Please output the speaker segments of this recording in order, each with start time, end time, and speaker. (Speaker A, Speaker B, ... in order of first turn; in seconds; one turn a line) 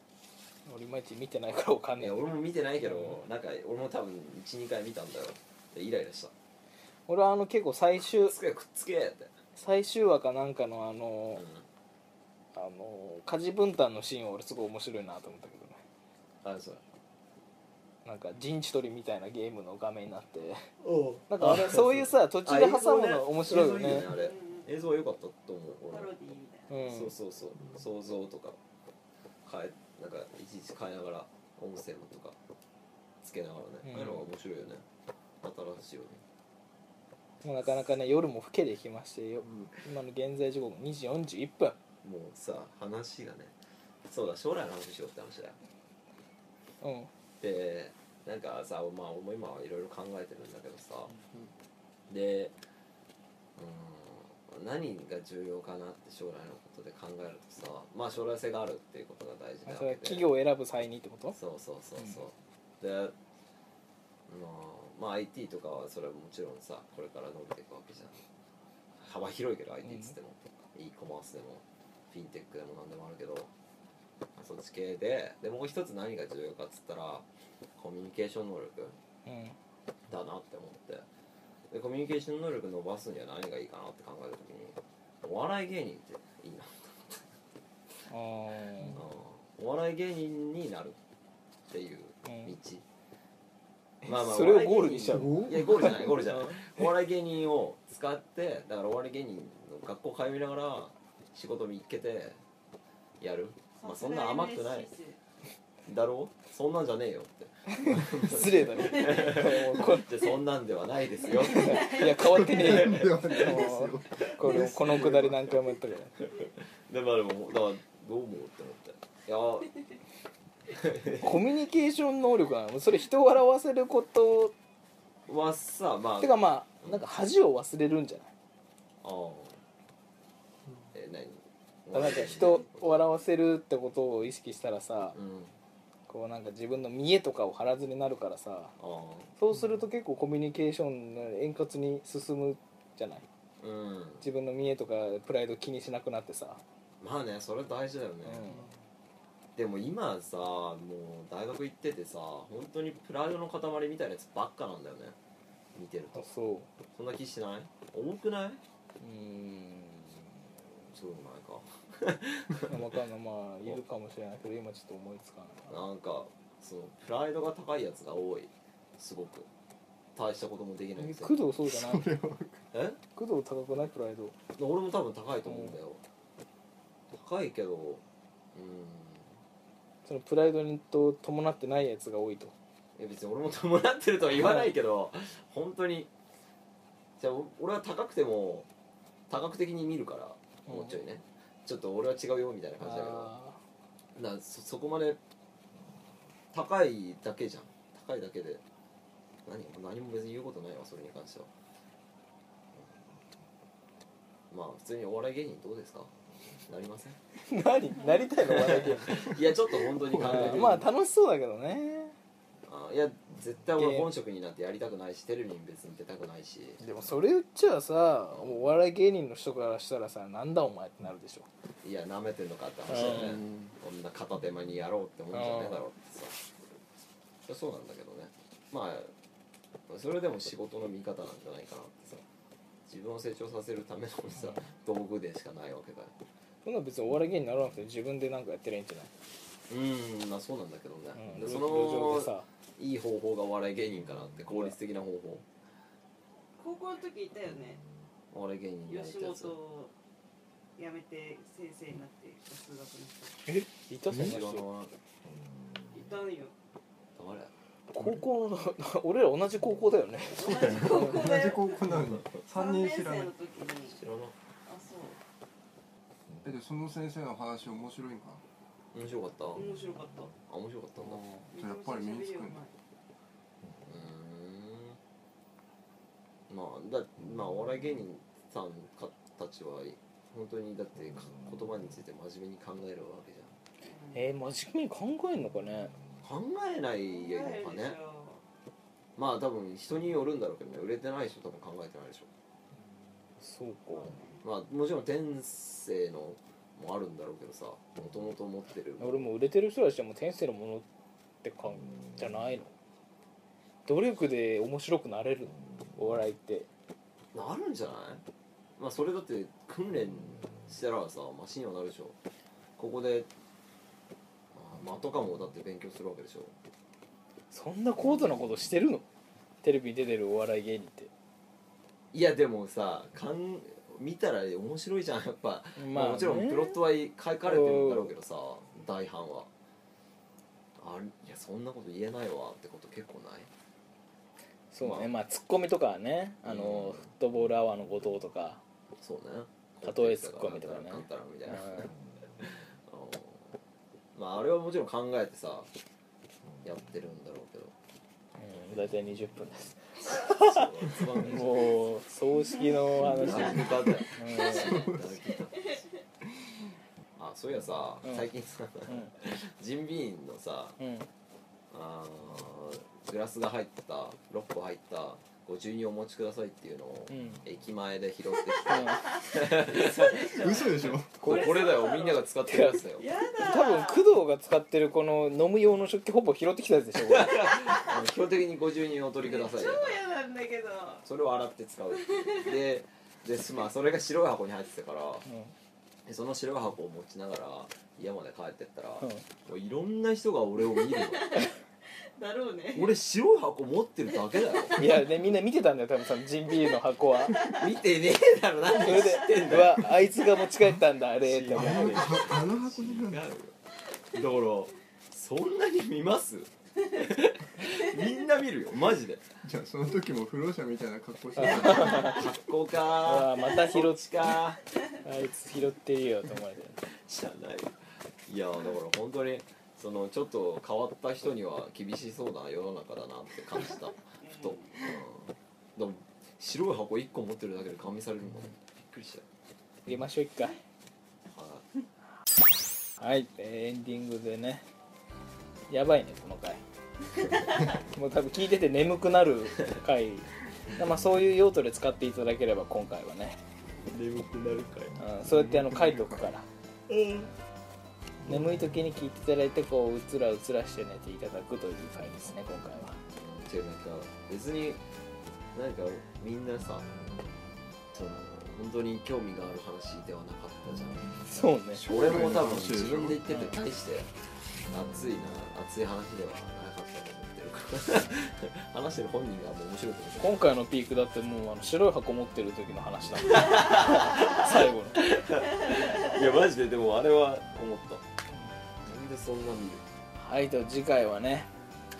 Speaker A: 0.7-2.2
Speaker B: 2.0-6.3
Speaker A: 2.8-3.2
Speaker A: 7.1-8.3
Speaker B: 8.2-9.3
Speaker A: 9.5-11.4
Speaker B: 11.4-11.6
Speaker A: 12.5-15.8
Speaker B: 16.4-16.8
Speaker A: 18.0-20.7
Speaker B: 20.8-26.1
Speaker A: 21.3-24.1
Speaker C: 23.8-24.7
Speaker C: 25.9-26.7
Speaker A: 26.7-27.1
Speaker B: 26.8-28.6
Speaker B: 29.4-32.4
Speaker B: 33.2-34.8
Speaker A: 33.8-34.2
Speaker B: 35.4-36.2
Speaker A: 37.4-41.8
Speaker B: 42.0-43.5
Speaker B: 44.1-45.6
Speaker A: 46.8-47.1
Speaker B: 47.4-51.1
Speaker B: 52.1-52.6
Speaker B: 53.6-60.3
Speaker A: 59.6-61.4
Speaker B: 61.3-63.1
Speaker B: 64.3-68.2
Speaker B: 69.0-73.5
Speaker A: 69.8-70.1
Speaker B: 74.4-77.3
Speaker B: 77.8-79.0
Speaker A: 79.2-79.6
Speaker B: 80.1-81.0
Speaker B: 81.7-87.2
Speaker A: 88.1-89.0
Speaker B: 88.9-91.0
Speaker B: 91.7-92.8
Speaker A: 92.3-92.5
Speaker B: 94.0-102.4
Speaker A: 94.0-96.6
Speaker D: 95.1-96.0
Speaker B: 103.2-104.9
Speaker C: 103.8-105.2
Speaker B: 105.8-113.5
Speaker A: 107.9-110.1
Speaker C: 108.8-109.2
Speaker A: 111.4-116.2
Speaker C: 111.5-112.1
Speaker D: 112.2-115.5
Speaker B: 116.2-119.7
Speaker B: 120.7-121.4
Speaker A: 121.2-124.5
Speaker B: 125.3-127.0
Speaker A: 126.2-128.3
Speaker B: 129.0-129.6
Speaker B: 130.9-133.1
Speaker A: 131.9-135.2
Speaker B: 135.1-135.5
Speaker A: 136.1-138.7
Speaker B: 138.8-139.3
Speaker A: 139.4-143.2
Speaker B: 143.6-144.2
Speaker A: 144.2-146.6
Speaker B: 147.0-148.6
Speaker A: 148.2-148.6
Speaker B: 149.6-155.1
Speaker B: 155.7-156.3
Speaker A: 156.1-156.7
Speaker B: 156.9-158.6
Speaker A: 159.0-160.3
Speaker B: 160.9-162.9
Speaker A: 162.7-165.8
Speaker B: 165.7-169.5
Speaker B: 170.1-171.4
Speaker A: 170.9-172.0
Speaker D: 171.7-172.6
Speaker B: 172.7-173.0
Speaker A: 173.1-174.3
Speaker B: 174.5-176.0
Speaker A: 175.4-175.7
Speaker B: 177.1-178.0
Speaker B: 178.5-179.3
Speaker A: 180.0-182.5
Speaker B: 183.0-186.1
Speaker B: 187.2-188.7
Speaker B: 189.3-193.3
Speaker A: 190.7-190.9
Speaker A: 192.8-193.6
Speaker B: 194.2-195.2
Speaker B: 196.5-198.6
Speaker B: 199.4-201.5
Speaker B: 204.5-206.1
Speaker B: 206.7-207.2
Speaker A: 207.4-209.3
Speaker B: 208.4-210.9
Speaker A: 210.1-212.1
Speaker D: 210.2-210.7
Speaker B: 212.7-216.8
Speaker A: 213.8-214.1
Speaker A: 216.8-221.5
Speaker B: 218.3-218.6
Speaker B: 221.8-226.4
Speaker A: 222.9-223.4
Speaker A: 225.3-225.8
Speaker B: 227.4-229.1
Speaker B: 229.9-232.2
Speaker B: 232.9-236.1
Speaker A: 236.6-239.1
Speaker B: 239.7-245.4
Speaker A: 241.2-242.4
Speaker C: 246.6-247.8
Speaker B: 248.3-249.5
Speaker C: 248.9-249.9
Speaker C: 250.8-253.3
Speaker A: 253.4-254.6
Speaker B: 254.1-254.9
Speaker C: 255.9-256.5
Speaker B: 257.1-258.2
Speaker A: 257.9-261.1
Speaker C: 260.4-261.8
Speaker B: 260.4-260.8
Speaker D: 260.8-263.3
Speaker B: 261.9-262.3
Speaker C: 262.5-264.0
Speaker B: 263.9-264.3
Speaker C: 264.6-265.2
Speaker D: 266.4-268.4
Speaker B: 268.9-269.7
Speaker C: 269.6-270.3
Speaker B: 270.4-271.2
Speaker D: 271.0-272.6
Speaker C: 271.5-272.7
Speaker B: 273.9-275.0
Speaker B: 276.5-283.5
Speaker C: 283.8-284.2
Speaker A: 284.1-285.9
Speaker B: 286.2-288.0
Speaker C: 287.0-288.4
Speaker B: 289.2-292.3
Speaker A: 293.4-294.2
Speaker B: 294.4-299.3
Speaker A: 299.0-300.9
Speaker A: 301.4-302.7
Speaker A: 303.9-306.7
Speaker B: 307.3-308.2
Speaker B: 308.8-312.2
Speaker B: 312.8-313.3
Speaker B: 314.5-316.5
Speaker A: 317.5-319.0
Speaker A: 319.6-321.1
Speaker B: 322.1-329.5
Speaker A: 325.8-326.8
Speaker A: 327.4-328.1
Speaker B: 330.8-333.5
Speaker A: 334.7-338.6
Speaker B: 334.8-335.1
Speaker B: 336.4-337.1
Speaker B: 339.0-343.6
Speaker A: 339.8-341.9
Speaker B: 344.1-345.7
Speaker B: 346.6-347.7
Speaker A: 348.4-354.9
Speaker B: 350.0-351.8
Speaker B: 353.0-355.8
Speaker B: 357.2-360.8
Speaker A: 358.9-359.1
Speaker A: 360.8-361.1
Speaker B: 361.7-370.4
Speaker A: 367.1-367.4
Speaker A: 368.7-369.0
Speaker C: 368.8-372.2
Speaker D: 370.4-371.3
Speaker B: 371.2-373.1
Speaker A: 371.2-371.7
Speaker A: 372.5-372.8
Speaker C: 373.0-374.0
Speaker A: 373.4-377.4
Speaker B: 377.0-380.0
Speaker C: 377.6-378.0
Speaker C: 379.2-381.0
Speaker B: 381.0-385.2
Speaker A: 385.2-385.5
Speaker B: 386.1-391.5
Speaker C: 390.7-391.5
Speaker C: 392.1-392.9
Speaker B: 392.7-394.9
Speaker A: 394.8-397.4
Speaker B: 397.4-399.9
Speaker A: 398.7-402.3
Speaker B: 401.2-403.5
Speaker D: 401.5-403.2
Speaker B: 404.1-409.3
Speaker D: 409.4-412.2
Speaker A: 411.4-412.2
Speaker B: 411.6-414.6
Speaker A: 413.0-414.4
Speaker A: 415.0-416.8
Speaker B: 416.9-429.2
Speaker C: 424.2-424.8
Speaker A: 429.9-430.6
Speaker B: 431.3-431.6
Speaker A: 433.0-434.6
Speaker A: 435.7-436.6
Speaker A: 437.6-443.4
Speaker B: 443.9-445.0
Speaker A: 445.0-446.5
Speaker D: 445.2-446.3
Speaker B: 446.9-447.3
Speaker D: 448.2-448.6
Speaker A: 448.2-453.0
Speaker B: 453.1-454.8
Speaker B: 455.5-456.9
Speaker B: 457.9-461.1
Speaker A: 461.2-461.8
Speaker B: 461.7-464.1
Speaker D: 461.9-463.2
Speaker B: 464.7-470.5
Speaker A: 470.2-475.1
Speaker B: 473.4-478.0
Speaker B: 478.8-479.8
Speaker A: 480.1-481.5